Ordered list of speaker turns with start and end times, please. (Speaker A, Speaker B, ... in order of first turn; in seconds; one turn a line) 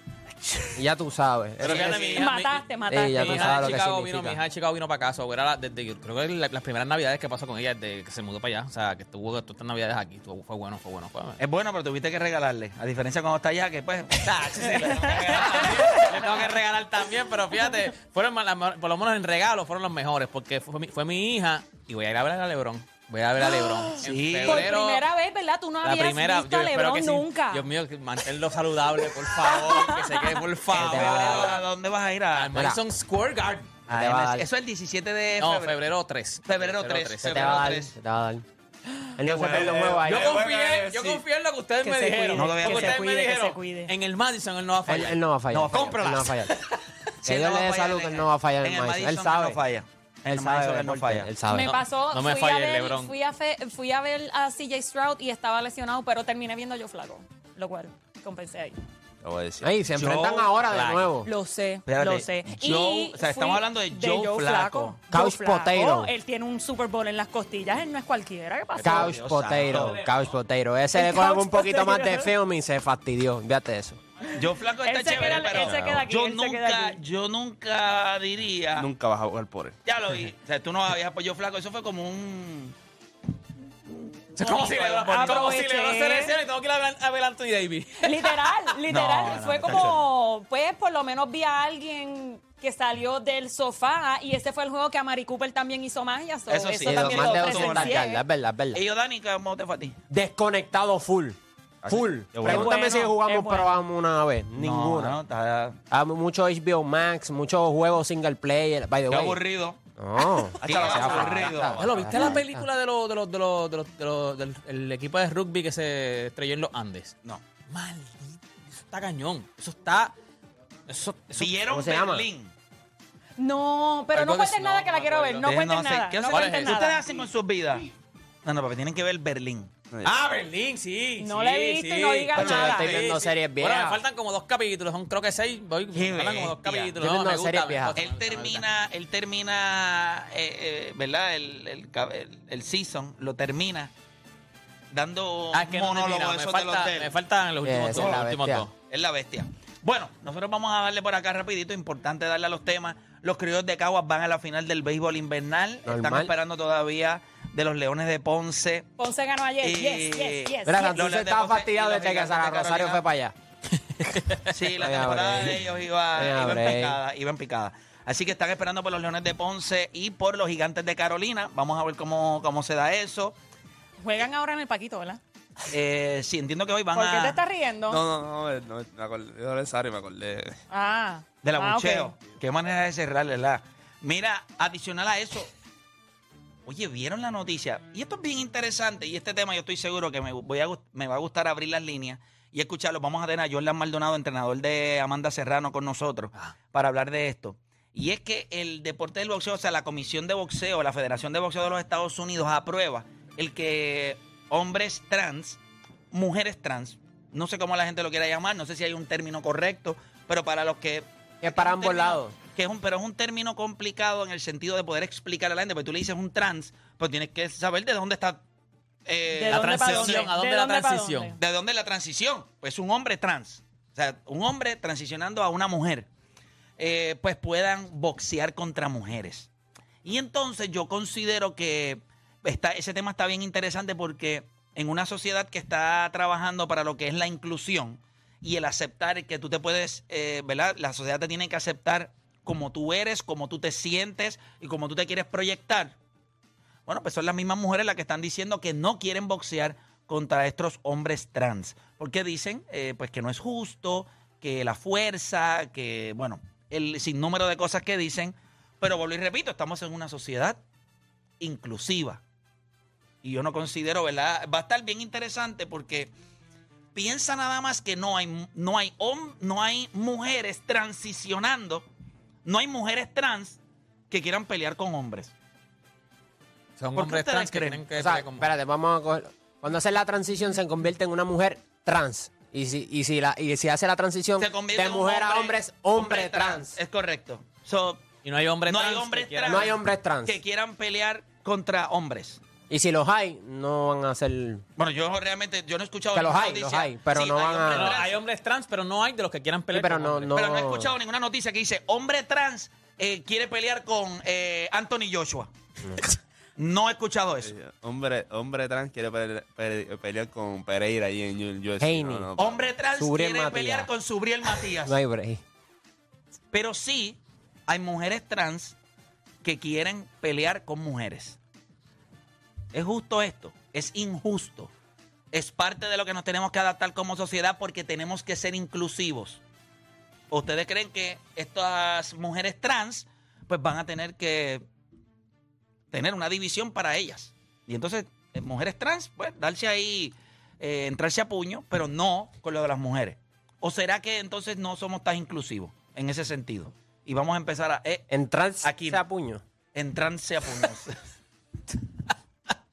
Speaker A: 0.7-1.9
Speaker B: 1.6-11.4
Speaker C: 1.6-2.3
Speaker D: 1.7-3.8
Speaker A: 2.9-4.4
Speaker C: 11.4-16.4
Speaker B: 14.2-25.0
Speaker D: 15.1-16.1
Speaker D: 23.6-27.6
Speaker C: 24.0-24.7
Speaker B: 25.8-31.6
Speaker D: 29.3-30.4
Speaker C: 30.7-32.5
Speaker A: 30.7-31.6
Speaker B: 32.3-33.8
Speaker A: 32.5-32.8
Speaker A: 33.9-34.5
Speaker C: 33.9-35.8
Speaker B: 35.4-37.7
Speaker C: 36.5-37.9
Speaker A: 37.2-38.4
Speaker A: 39.2-40.4
Speaker E: 39.3-41.2
Speaker C: 39.5-39.9
Speaker B: 39.6-45.2
Speaker D: 41.8-43.9
Speaker C: 42.3-43.0
Speaker A: 44.9-46.5
Speaker C: 45.5-46.3
Speaker B: 45.7-46.8
Speaker C: 47.2-51.3
Speaker A: 47.2-49.6
Speaker A: 50.3-51.7
Speaker D: 51.5-58.8
Speaker B: 51.5-53.1
Speaker E: 59.2-59.7
Speaker A: 59.6-61.3
Speaker C: 59.9-60.6
Speaker B: 60.7-61.1
Speaker D: 61.2-69.1
Speaker C: 61.9-65.0
Speaker A: 65.1-66.1
Speaker B: 68.8-70.1
Speaker A: 68.8-74.0
Speaker C: 69.1-70.0
Speaker D: 70.9-72.3
Speaker D: 74.3-77.0
Speaker C: 74.3-78.9
Speaker E: 75.6-76.0
Speaker E: 78.7-79.8
Speaker C: 79.8-82.7
Speaker C: 83.9-85.6
Speaker B: 84.3-88.4
Speaker D: 85.0-86.3
Speaker D: 88.0-98.2
Speaker C: 88.9-90.0
Speaker B: 89.2-89.9
Speaker C: 96.5-98.0
Speaker A: 96.8-98.8
Speaker C: 98.7-100.0
Speaker A: 100.1-105.2
Speaker E: 101.8-102.7
Speaker C: 102.5-103.1
Speaker D: 102.5-103.8
Speaker C: 104.5-105.8
Speaker A: 105.9-109.4
Speaker C: 109.1-109.8
Speaker A: 110.0-112.7
Speaker E: 110.6-111.6
Speaker C: 110.6-111.8
Speaker B: 111.6-117.1
Speaker B: 117.7-118.4
Speaker B: 118.9-120.1
Speaker B: 120.9-121.6
Speaker C: 121.4-122.5
Speaker A: 121.6-122.3
Speaker D: 123.4-127.0
Speaker B: 124.1-125.5
Speaker C: 125.4-127.9
Speaker B: 126.3-126.8
Speaker C: 128.4-129.7
Speaker B: 130.0-138.6
Speaker D: 131.2-133.0
Speaker A: 132.3-134.0
Speaker C: 135.9-136.9
Speaker A: 137.0-138.0
Speaker C: 137.9-143.9
Speaker C: 144.9-147.1
Speaker B: 145.5-148.7
Speaker A: 147.6-148.7
Speaker C: 148.9-158.9
Speaker A: 155.8-156.3
Speaker D: 159.0-161.0
Speaker C: 159.6-163.0
Speaker A: 160.7-163.3
Speaker C: 164.5-173.3
Speaker A: 164.7-167.0
Speaker D: 174.0-175.2
Speaker C: 175.7-177.4
Speaker D: 176.9-178.0
Speaker E: 177.9-180.6
Speaker D: 180.7-182.1
Speaker C: 181.4-185.5
Speaker C: 186.7-205.6
Speaker C: 206.1-218.4
Speaker A: 211.4-212.3
Speaker C: 219.1-220.3
Speaker D: 219.3-221.4
Speaker B: 219.5-221.4
Speaker C: 221.4-226.1
Speaker C: 226.8-229.5
Speaker C: 230.0-245.9
Speaker C: 246.9-260.6
Speaker C: 261.4-262.2
Speaker C: 263.2-266.1
Speaker C: 266.9-271.9
Speaker C: 272.4-273.6
Speaker C: 274.1-275.3
Speaker B: 276.8-278.5
Speaker C: 276.9-277.9
Speaker A: 277.9-286.7
Speaker C: 284.4-288.1
Speaker B: 288.2-289.7
Speaker C: 288.7-292.4
Speaker A: 289.4-290.4
Speaker A: 292.7-294.6
Speaker C: 294.8-298.2
Speaker A: 296.1-298.0
Speaker B: 297.7-300.4
Speaker A: 299.7-300.9
Speaker C: 300.3-305.5
Speaker C: 306.6-307.5
Speaker E: 307.4-312.7
Speaker A: 311.8-312.2
Speaker C: 312.4-315.0
Speaker A: 313.0-313.9
Speaker A: 314.8-315.4
Speaker C: 316.5-318.8
Speaker C: 319.4-321.4
Speaker C: 322.7-324.7
Speaker C: 325.3-329.4
Speaker C: 330.3-334.6
Speaker C: 335.9-349.0
Speaker A: 348.1-349.4
Speaker C: 349.7-350.9